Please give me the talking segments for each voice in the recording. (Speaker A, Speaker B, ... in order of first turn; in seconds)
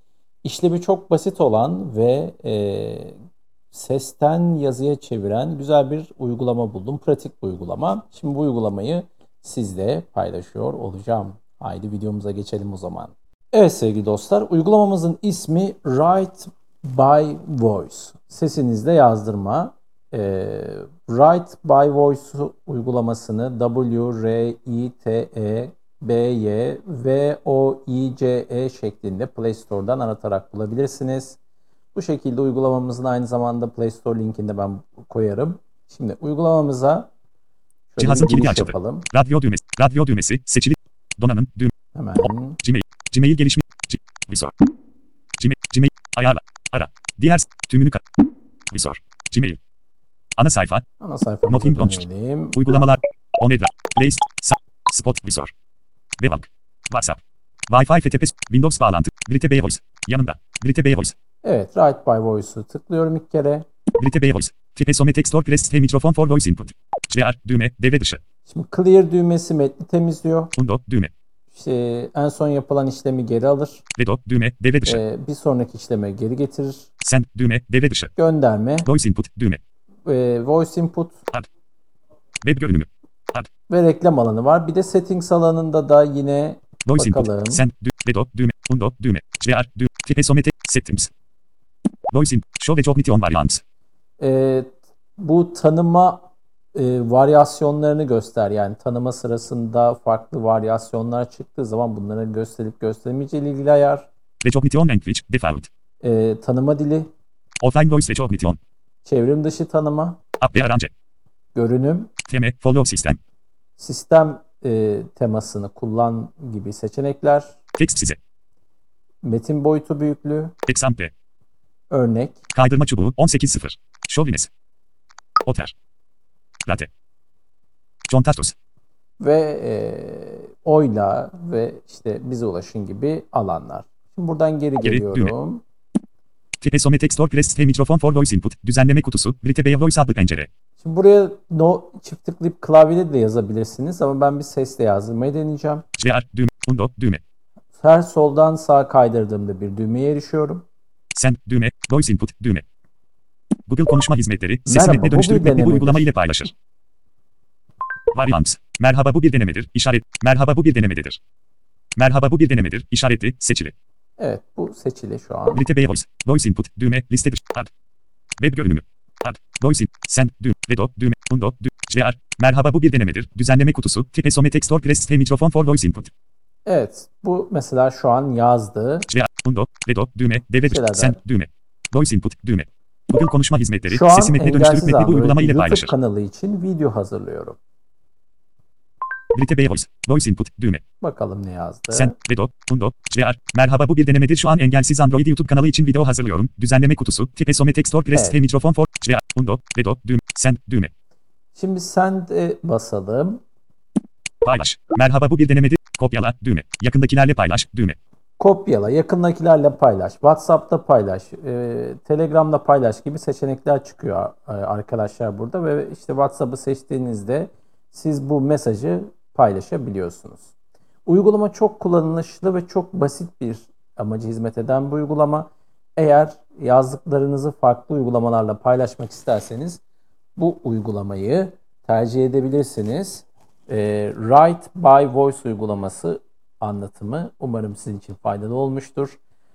Speaker A: 0.4-3.1, 3.7-31.4, 31.9-37.1, 37.9-39.1, 41.9-42.6, 51.0-52.8, 61.4-63.6, 68.5-70.5, 71.5-73.8, 74.8-76.9, 78.2-78.9, 80.0-81.2, 83.7-87.6, 94.2-96.2, 96.7-104.1, 106.0-107.1, 109.0-110.2, 111.5-112.1, 113.8-117.5, 119.2-120.5, 121.9-122.4, 129.2-135.6, 140.8-145.8, 147.8-150.6, 154.7-156.1, 164.2-165.6, 176.7-179.1, 180.6-181.2, 183.9-187.6, 191.0-192.1, 198.1-198.4, 201.5-203.4, 208.4-220.5, 221.1-229.8, 230.4-239.2
Speaker B: 38.0-41.7, 42.6-44.6, 45.4-48.0, 48.7-49.6, 50.4-50.8, 51.5-52.0, 52.5-55.5, 56.2-61.1, 64.0-68.2, 70.5-71.1, 74.0-75.0, 77.0-78.1, 78.8-79.6, 82.4-83.5, 86.8-91.1, 92.1-93.6, 104.4-105.7, 107.6-108.6, 110.4-110.9, 112.3-113.2, 117.8-118.2, 120.7-121.1, 122.5-124.5, 125.4-125.7, 128.1-128.5, 134.8-135.3, 136.6-140.5, 146.0-147.2, 151.1-152.6, 153.7-156.5, 158.1-161.2, 161.9-163.7, 165.5-167.7, 168.4-176.1, 179.1-185.9, 189.3-190.8, 191.9-200.9, 204.4-208.0